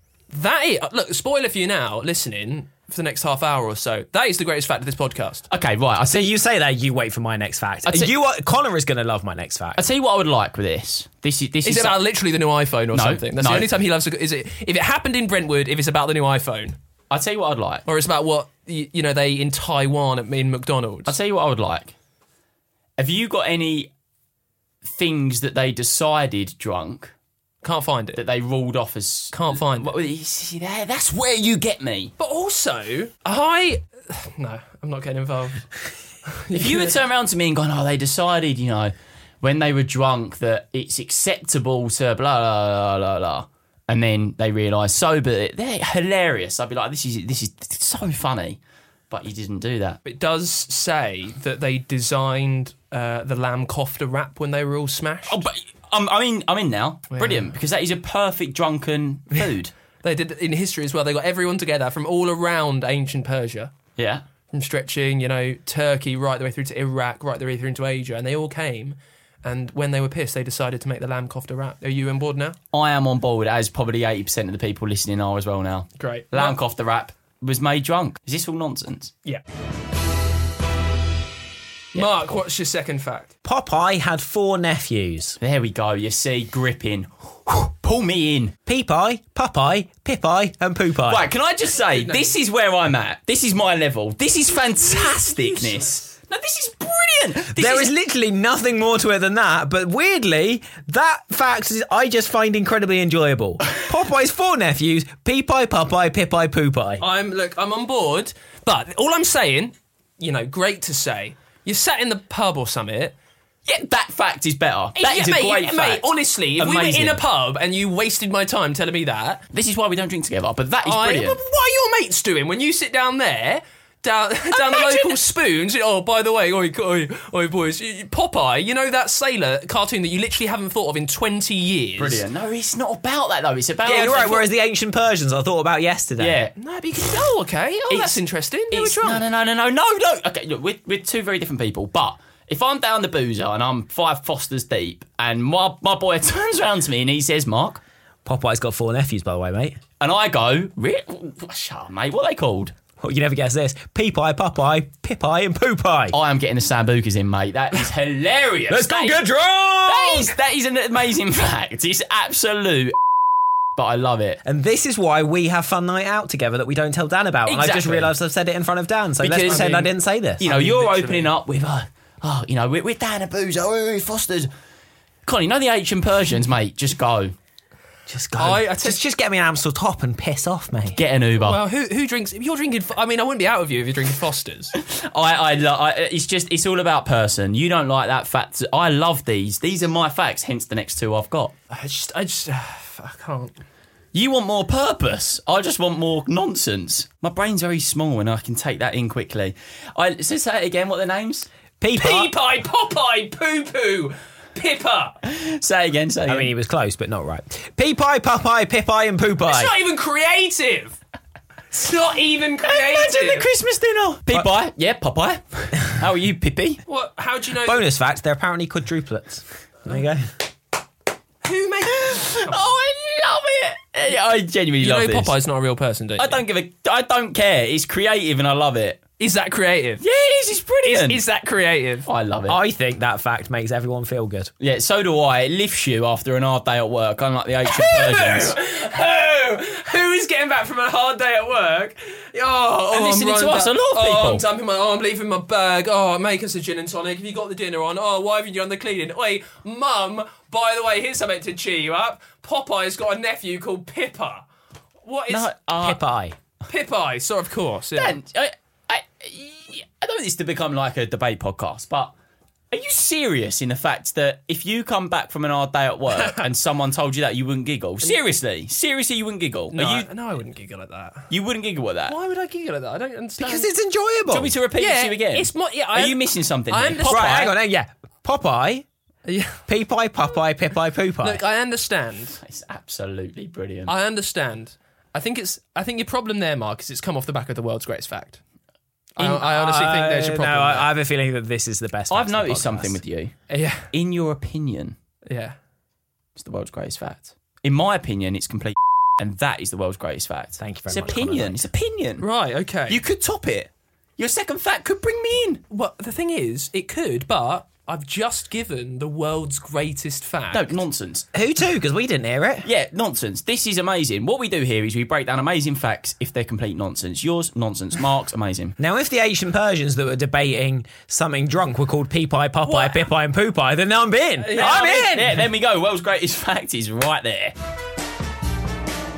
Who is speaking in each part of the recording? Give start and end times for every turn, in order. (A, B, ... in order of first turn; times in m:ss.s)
0:00.3-0:05.4 A
0:05.5-0:06.3 B
0:06.1-0:09.8 C
0:07.8-0:08.1 B
0:09.8-0:12.0 B
0:11.6-0:16.8 A
0:12.9-0:13.7 B
0:17.1-0:17.8 B
0:17.8-0:21.1 A
0:21.0-0:21.9 B
0:23.0-0:23.9 B
0:24.8-0:27.1 B
0:27.6-0:28.2 A
0:28.1-0:32.1 B
0:29.3-0:29.9 A
0:32.2-0:35.7 A
0:36.2-0:36.9 A
0:36.5-0:50.0 B
0:50.0-0:55.4 A
0:55.3-0:59.7 B
0:57.1-0:57.5 A
1:00.0-1:03.7 A
1:04.0-1:04.2 B
1:04.5-1:12.6 A
1:12.7-1:19.1 B
1:16.0-1:16.6 A
1:21.9-1:22.4 B
1:21.9-1:23.3 A
1:23.4-1:25.4 C
1:25.4-1:28.5 B
1:28.7-1:31.3 C
1:31.1-1:37.9 B
1:31.9-1:32.3 A
1:37.5-1:47.0 C
1:47.0-1:53.1 A
1:53.6-1:56.0 B
1:55.0-1:59.4 A
1:56.6-1:57.2 B
1:59.5-2:01.4 B
2:00.8-2:12.2 A
2:04.5-2:05.2 B
2:12.0-2:14.5 B
2:13.8-2:16.4 C
2:16.2-2:16.5 B
2:16.6-2:19.2 A
2:17.9-2:18.2 B
2:18.7-2:27.8 B
2:28.2-2:29.8 C
2:30.0-2:32.7 B
2:33.0-2:36.2 C
2:36.1-2:39.2 B
2:38.7-2:40.3 C
2:39.8-2:43.0 B
2:43.8-2:44.4 B
2:44.4-2:50.4 C
2:47.4-2:48.1 B
2:49.2-2:49.8 B
2:49.4-2:49.9 A
2:50.4-2:54.5 B
2:50.4-2:51.3 A
2:55.2-2:57.3 B
2:58.1-3:01.0 C
2:58.4-2:59.0 A
3:00.9-3:01.6 B
3:01.4-3:04.7 A
3:04.8-3:11.5 B
3:11.7-3:13.5 A
3:14.1-3:21.5 B
3:21.8-3:22.3 C
3:22.0-3:25.2 A
3:25.2-3:26.5 B
3:26.3-3:29.7 C
3:29.4-3:31.0 A
3:31.7-3:33.5 A
3:32.6-3:36.8 B
3:36.9-3:37.8 A
3:37.6-3:40.3 C
3:41.4-3:42.7 A
3:42.0-3:45.3 B
3:44.8-3:46.4 A
3:46.2-3:49.0 B
3:49.2-3:50.0 A
3:50.0-3:51.2 B
3:50.8-3:52.1 A
3:52.0-3:52.6 B
3:52.5-3:54.5 C
3:54.6-3:58.6 B
3:57.7-4:14.4 A
4:02.9-4:04.4 B
4:15.0-4:15.5 A
4:15.3-4:16.0 B
4:15.8-4:16.4 C
4:16.6-4:18.2 A
4:18.0-4:22.1 B
4:22.7-4:30.1 B
4:26.1-4:26.4 A
4:29.7-4:31.3 A
4:31.3-4:32.2 B
4:32.1-4:33.7 A
4:33.4-4:34.5 C
4:34.3-4:37.5 B
4:34.8-4:37.5 A
4:37.0-4:38.8 C
4:39.2-4:39.6 A
4:39.7-4:41.4 C
4:41.2-4:42.4 A
4:42.4-4:43.9 B
4:43.9-4:48.4 A
4:49.2-4:50.9 A
4:49.2-4:53.0 C
4:52.1-4:53.3 B
4:53.5-4:53.9 A
4:53.9-4:54.9 B
4:55.3-4:55.6 A
4:56.4-5:02.2 B
5:00.6-5:01.7 C
5:02.2-5:03.0 A
5:02.9-5:05.6 B
5:05.7-5:10.8 A
5:10.5-5:11.2 B
5:11.3-5:12.7 C
5:12.6-5:18.8 B
5:18.8-5:25.4 C
5:22.6-5:23.1 A
5:24.4-5:25.2 A
5:24.6-5:27.5 B